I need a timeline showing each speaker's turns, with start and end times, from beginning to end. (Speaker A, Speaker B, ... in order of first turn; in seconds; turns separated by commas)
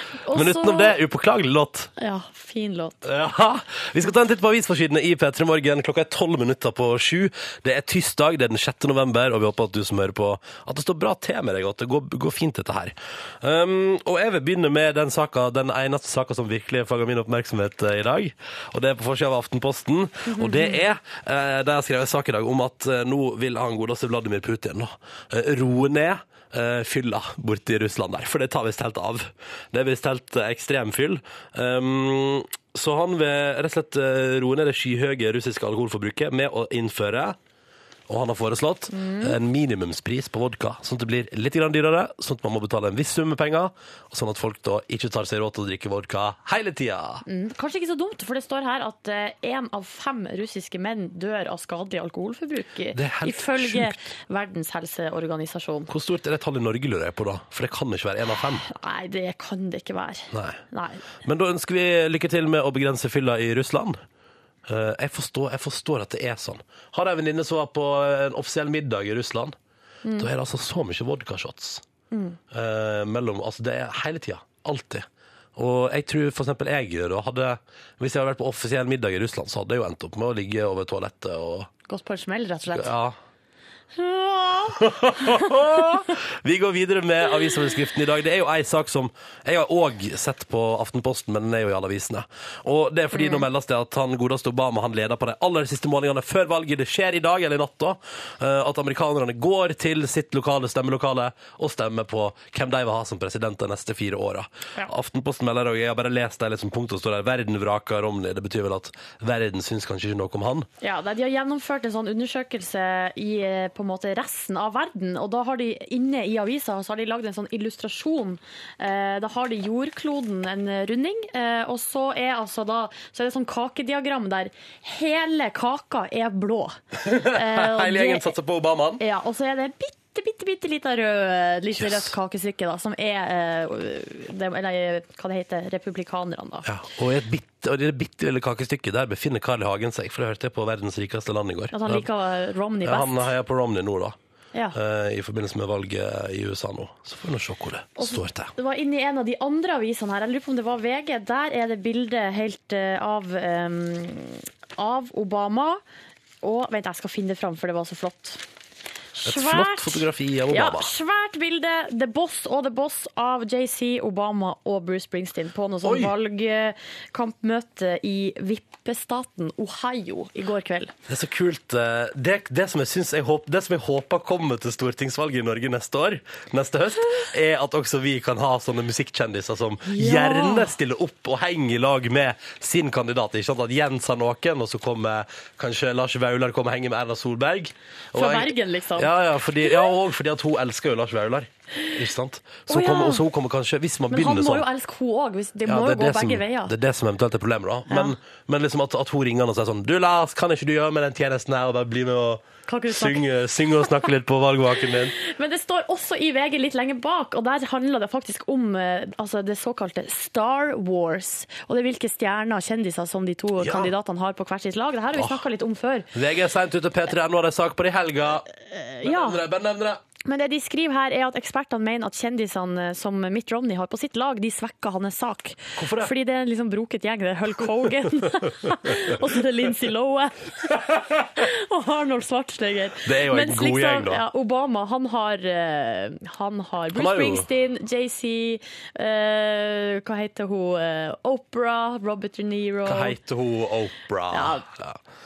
Speaker A: 0.2-1.0, Speaker B: 0.3-1.9, Speaker A: 2.0-3.0, Speaker B: 3.0-37.4, Speaker A: 20.3-20.8, Speaker B: 38.1-47.2, Speaker A: 38.9-39.4, Speaker A: 47.2-55.9, Speaker B: 52.9-54.0, Speaker B: 55.9-58.7, Speaker A: 58.7-61.0, Speaker B: 60.3-60.6, Speaker B: 61.2-64.0, Speaker B: 64.7-69.6, Speaker B: 70.2-71.8, Speaker A: 72.1-72.4, Speaker B: 72.5-81.7, Speaker A: 81.9-82.9, Speaker B: 82.7-83.2, Speaker A: 84.0-85.5, Speaker B: 84.7-110.7, Speaker A: 93.1-93.4, Speaker A: 110.8-128.3, Speaker B: 127.0-129.0, Speaker A: 129.0-136.7, Speaker B: 131.8-132.1, Speaker B: 136.7-142.1, Speaker A: 141.7-143.3, Speaker B: 142.8-144.2, Speaker B: 144.7-148.5, Speaker A: 148.0-155.8, Speaker A: 156.4-158.4, Speaker A: 159.1-170.9, Speaker B: 159.2-160.9, Speaker B: 165.8-166.1, Speaker B: 171.1-194.7, Speaker A: 179.9-180.8, Speaker A: 188.2-189.1, Speaker A: 192.7-193.2, Speaker A: 194.1-196.7, Speaker B: 195.7-205.1, Speaker A: 202.7-203.2, Speaker A: 205.1-216.1, Speaker B: 213.6-213.9, Speaker B: 215.2-215.4, Speaker B: 216.1-218.5, Speaker A: 218.6-219.4, Speaker B: 219.0-220.0, Speaker A: 220.2-230.7, Speaker B: 225.8-226.1, Speaker A: 231.3-243.2, Speaker B: 233.0-234.2, Speaker B: 236.9-237.5, Speaker B: 242.9-245.0, Speaker A: 244.3-244.7